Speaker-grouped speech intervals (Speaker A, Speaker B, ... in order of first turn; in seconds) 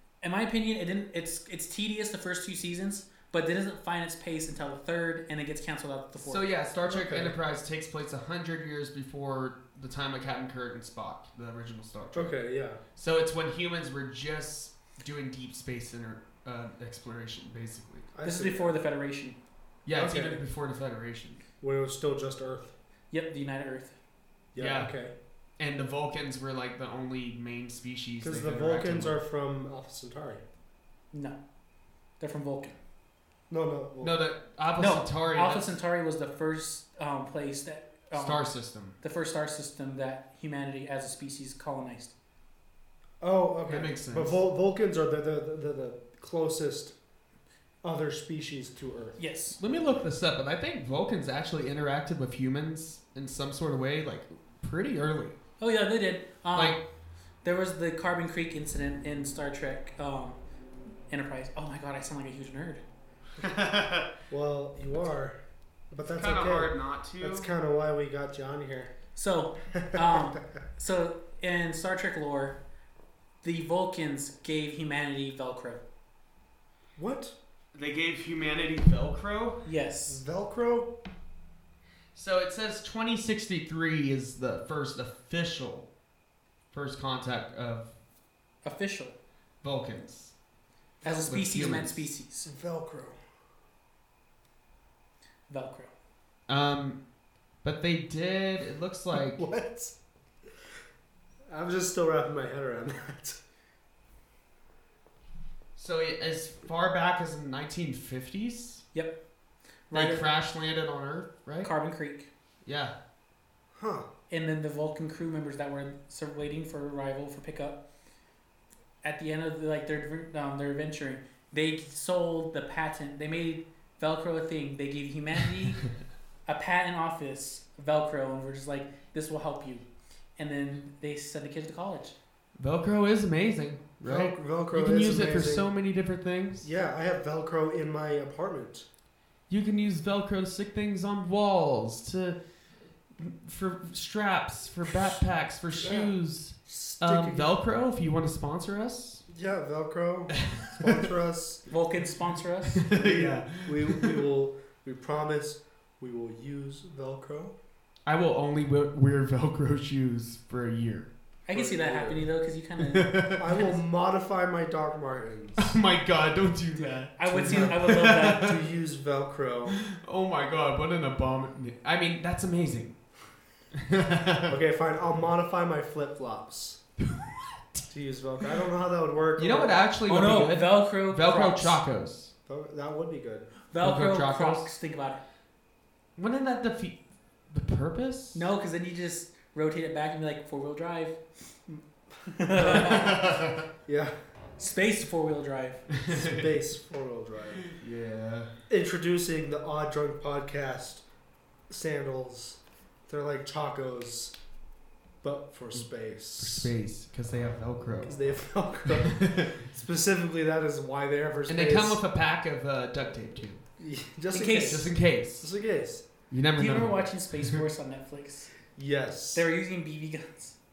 Speaker A: 0.2-6.5, 18.2-19.4, 23.1-23.9, 31.1-31.4, 32.2-32.8, 34.8-38.5, 39.0-42.1, 49.2-49.6, 55.6-56.8, 57.4-60.4, 61.1-62.8, 69.2-72.6, 73.4-75.8, 79.6-80.2, 88.6-89.2, 91.0-92.5, 95.5-95.9, 109.9-110.3, 111.6-112.3, 114.3-117.8, 119.0-125.9, 126.5-129.8, 130.4-132.2, 151.7-152.9, 161.4-163.6, 166.8-168.5, 180.1-181.8, 183.7-185.2, 188.3-191.2, 192.3-193.3, 194.6-195.8, 214.3-214.9, 216.6-218.5, 219.3-220.6
Speaker B: 6.2-12.3, 12.9-18.1, 19.8-21.4, 24.6-24.9, 25.6-29.1, 34.0-35.7, 38.1-38.9, 43.7-44.4, 49.6-55.4, 56.5-56.8, 63.4-64.1, 66.1-67.5, 77.7-79.6, 82.1-85.9, 86.7-87.9, 89.6-90.3, 91.3-92.1, 96.5-97.0, 97.6-99.4, 105.8-108.8, 109.9-111.7, 112.6-112.9, 132.6-136.7, 139.5-142.4, 143.2-149.2, 150.3-151.0, 152.8-154.2, 158.1-161.1, 162.8-163.6, 165.6-168.6, 169.7-173.0, 173.7-174.6, 177.0-177.8, 179.4-182.3, 183.8-184.7, 186.2-187.0, 187.5-188.5, 192.6-193.7, 195.9-196.5, 197.6-198.5, 206.4-208.1, 208.9-209.5, 211.5-213.6, 214.6-215.5, 216.3-217.6
Speaker C: 6.8-7.3, 12.1-12.8, 18.1-18.7, 19.9-20.4, 21.6-22.7, 24.5-25.1, 28.2-30.4, 33.5-34.1, 43.2-46.9, 47.8-49.2, 64.3-65.4, 65.9-68.9, 69.7-70.3, 77.0-77.3, 80.1-80.9, 92.4-93.2, 99.1-100.0, 101.5-103.4, 113.7-114.1, 134.0-135.7, 136.6-138.9, 145.8-146.1, 146.7-147.5, 149.3-151.6, 152.9-157.5, 161.5-162.2, 163.4-165.8, 167.3-169.8, 174.5-176.8, 177.9-179.8, 182.5-183.5, 192.4-193.3, 193.8-194.1, 196.1-197.6, 198.7-201.0, 201.7-204.3, 205.2-206.7, 208.0-212.0, 213.8-216.1, 218.8-219.4